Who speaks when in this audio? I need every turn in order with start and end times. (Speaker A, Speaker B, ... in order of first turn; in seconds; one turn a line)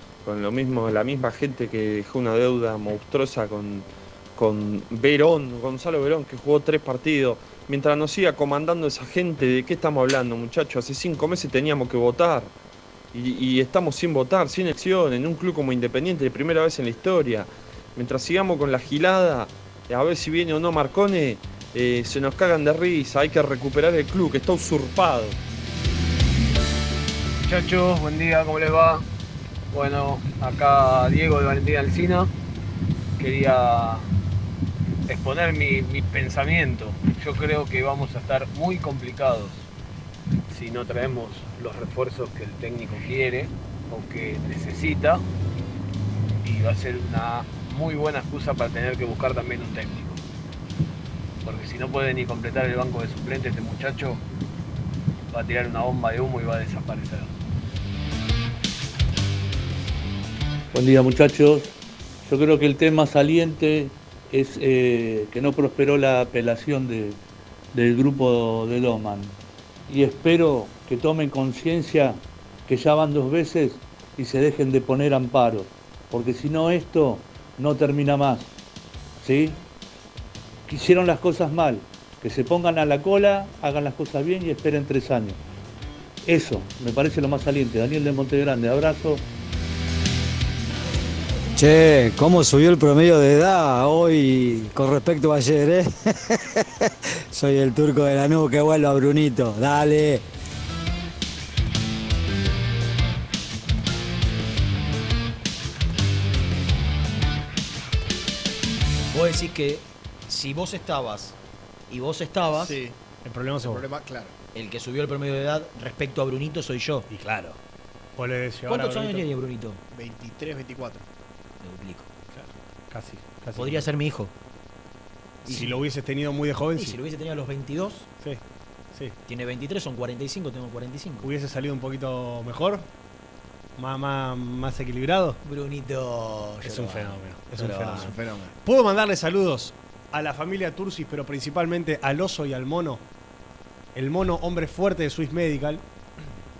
Speaker A: 0.2-12.5
Speaker A: 13.1-25.4
Speaker B: 27.5-29.0
Speaker B: 29.7-32.3
Speaker B: 33.2-34.0
Speaker B: 35.1-39.6
Speaker B: 40.5-45.2
Speaker B: 46.4-50.2
Speaker B: 51.4-54.2
Speaker B: 55.3-57.3
Speaker C: 60.7-61.7
Speaker C: 62.2-67.2
Speaker C: 67.7-69.3
Speaker C: 69.9-78.5
Speaker C: 79.2-79.6
Speaker C: 80.7-85.4
Speaker C: 86.2-89.2
Speaker D: 91.5-96.6
Speaker D: 97.3-100.2
Speaker E: 109.1-111.3
Speaker E: 111.9-112.7
Speaker F: 112.5-113.0
Speaker G: 113.2-113.8
Speaker F: 113.6-114.3
Speaker E: 114.5-117.0
Speaker G: 117.1-117.5
Speaker G: 118.2-119.2
Speaker E: 118.7-119.8
Speaker F: 119.9-121.0
Speaker E: 121.6-122.1
Speaker G: 122.3-123.8
Speaker E: 123.5-124.3
Speaker E: 125.4-125.8
Speaker G: 125.5-127.0
Speaker E: 126.7-128.1
Speaker E: 129.3-131.3
Speaker G: 131.2-132.8
Speaker G: 133.8-135.4
Speaker E: 135.4-138.1
Speaker G: 136.6-143.0
Speaker F: 137.9-138.5
Speaker G: 143.9-145.8